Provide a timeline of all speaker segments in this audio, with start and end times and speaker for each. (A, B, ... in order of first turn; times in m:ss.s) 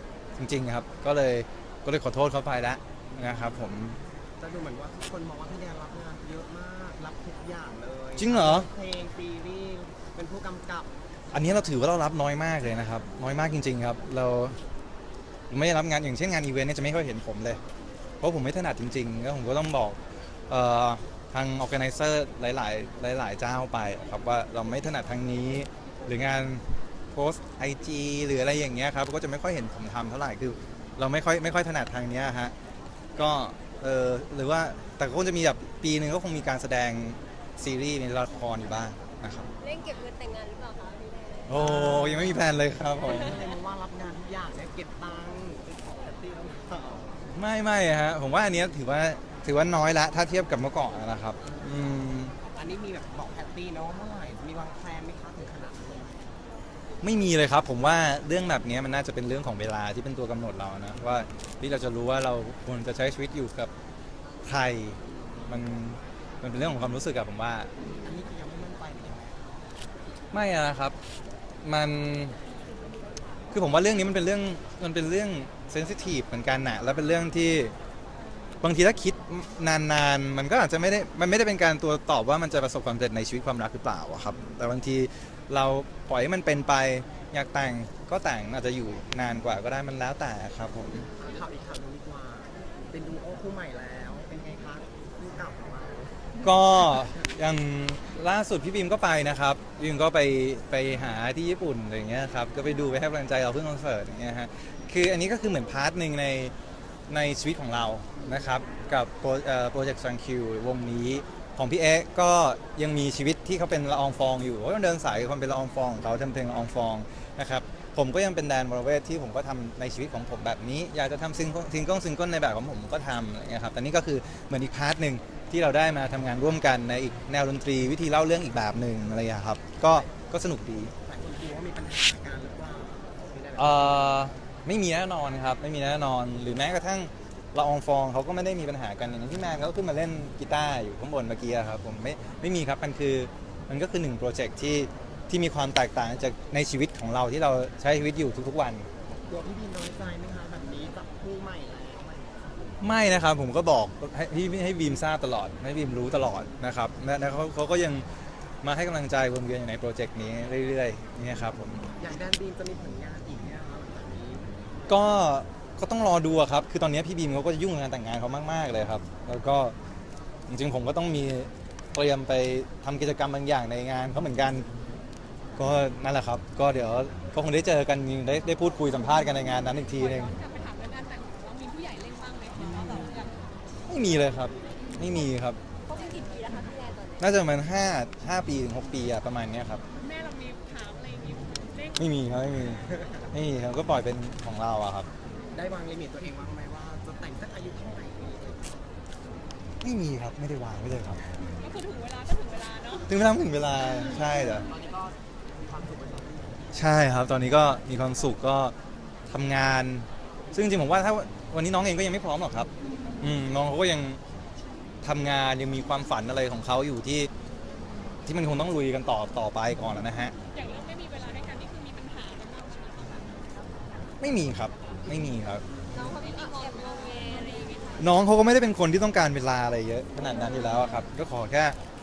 0:00.4-0:04.0 A
0:04.4-0:10.9 B
0:08.2-0:08.7 A
0:11.3-0:14.6 A
0:15.5-0:17.6 A
0:18.2-0:32.5 A
0:33.2-0:39.5 A
0:39.6-0:41.5 C
0:41.5-0:43.4 A
0:41.5-0:47.3 B
0:47.3-0:52.4 A
0:51.4-0:56.4 B
0:57.0-1:03.7 A
1:04.4-1:07.7 A
1:08.0-1:09.4 B
1:10.3-1:11.0 A
1:11.6-1:12.4 A
1:13.5-1:17.8 A
1:18.6-1:31.1 A
1:31.2-1:36.2 B
1:36.4-1:46.5 A
1:47.1-2:10.9 A
2:11.0-2:14.1 B
2:13.6-2:28.9 A
2:29.1-2:32.8 B
2:32.8-2:38.1 A
2:38.6-2:41.9 A
2:42.0-2:44.5 B
2:44.9-2:49.8 A
2:50.5-2:54.7 A
2:55.6-3:00.3 A
2:59.9-3:03.3 D
3:02.6-3:03.3 B
3:03.8-3:05.6 A
3:05.9-3:07.3 C
3:07.2-3:09.8 A
3:10.0-3:12.0 D
3:12.0-3:15.1 A
3:15.5-3:18.8 B
3:19.8-3:21.3 A
3:21.6-3:23.1 D
3:23.1-3:24.7 A
3:23.9-3:26.7 B
3:26.7-3:28.7 A
3:29.3-3:32.7 A
3:33.2-3:34.2 A
3:35.0-3:37.3 A
3:38.3-3:40.3 A
3:40.5-3:43.7 D
3:44.2-3:45.6 A
3:45.9-3:48.0 C
3:46.0-3:47.9 D
3:48.0-3:51.8 A